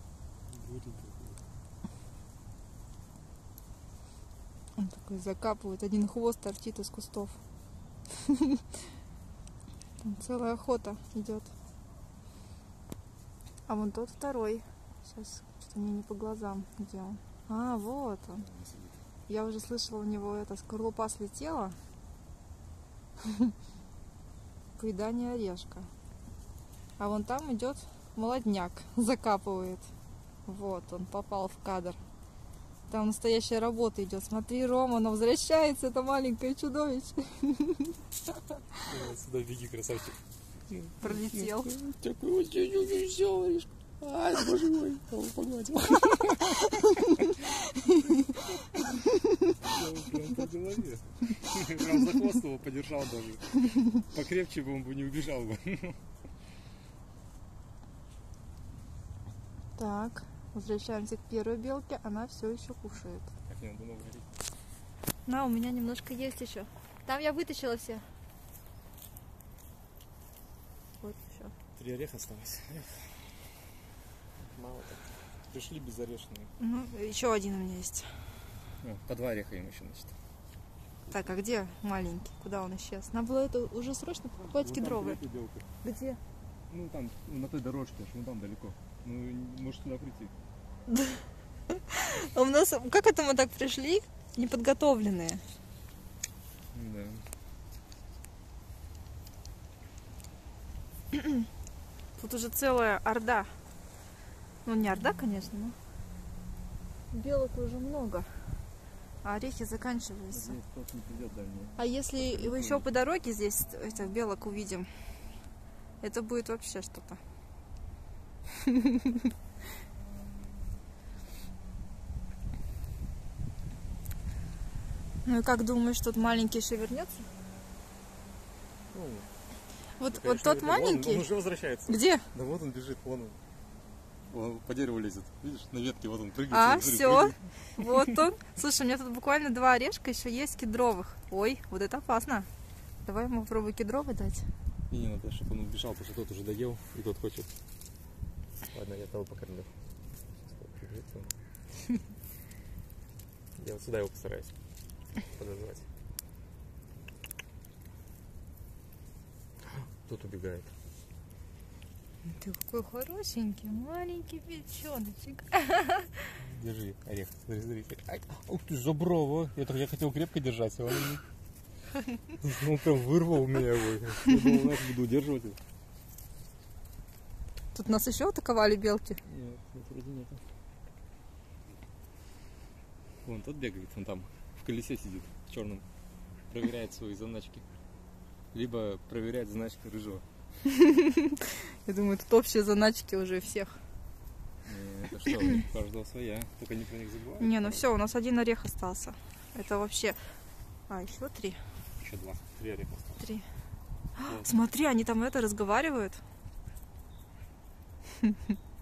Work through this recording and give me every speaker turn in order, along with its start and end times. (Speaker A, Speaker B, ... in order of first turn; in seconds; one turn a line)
Speaker A: 0.5-1.4
Speaker B: 4.8-7.4
Speaker B: 8.1-8.8
Speaker B: 10.0-11.5
Speaker B: 13.7-18.4
Speaker A: 18.4-19.0
Speaker B: 19.3-21.8
Speaker B: 23.2-23.5
Speaker B: 24.8-25.9
Speaker B: 27.0-29.9
Speaker B: 30.4-32.0
Speaker B: 32.9-38.0
Speaker B: 38.5-38.8
Speaker A: 38.9-40.1
Speaker A: 40.7-47.3
Speaker B: 41.0-41.7
Speaker A: 49.6-56.0
Speaker B: 59.8-63.3
Speaker A: 63.4-64.3
Speaker B: 65.2-68.1
Speaker B: 71.0-71.5
Speaker A: 71.8-73.2
Speaker A: 74.4-76.5
Speaker B: 76.6-78.1
Speaker A: 78.8-80.1
Speaker B: 81.1-85.2
Speaker A: 84.5-85.7
Speaker B: 85.8-86.2
Speaker A: 86.7-90.3
Speaker B: 90.9-95.4
Speaker A: 96.7-97.2
Speaker B: 101.1-101.4
Speaker B: 102.2-103.5
Speaker B: 104.6-105.7
Speaker B: 107.1-108.4
Speaker B: 109.2-110.6
Speaker A: 110.3-112.8
Speaker B: 111.8-114.9
Speaker B: 116.0-117.2
Speaker B: 118.6-119.3
Speaker B: 125.2-127.3
Speaker A: 128.9-129.3
Speaker B: 130.0-131.3
Speaker A: 130.1-133.4
Speaker B: 131.9-132.3
Speaker A: 134.3-137.4
Speaker B: 136.5-142.5
Speaker B: 143.0-144.5
Speaker A: 144.9-147.5
Speaker A: 148.7-149.7
Speaker A: 150.5-151.4
Speaker A: 153.6-154.5
Speaker A: 155.3-155.9
Speaker A: 159.7-160.7
Speaker B: 162.2-166.3
Speaker A: 166.4-171.2
Speaker A: 172.3-175.6
Speaker B: 177.7-179.2
Speaker A: 179.2-180.4
Speaker A: 183.2-185.8
Speaker A: 186.5-187.7
Speaker A: 188.5-190.2
Speaker B: 190.7-193.8
Speaker A: 194.6-197.9
Speaker B: 197.4-200.2
Speaker B: 200.9-201.6
Speaker A: 202.0-203.2
Speaker B: 203.2-203.4
Speaker B: 204.2-206.2
Speaker A: 204.2-204.5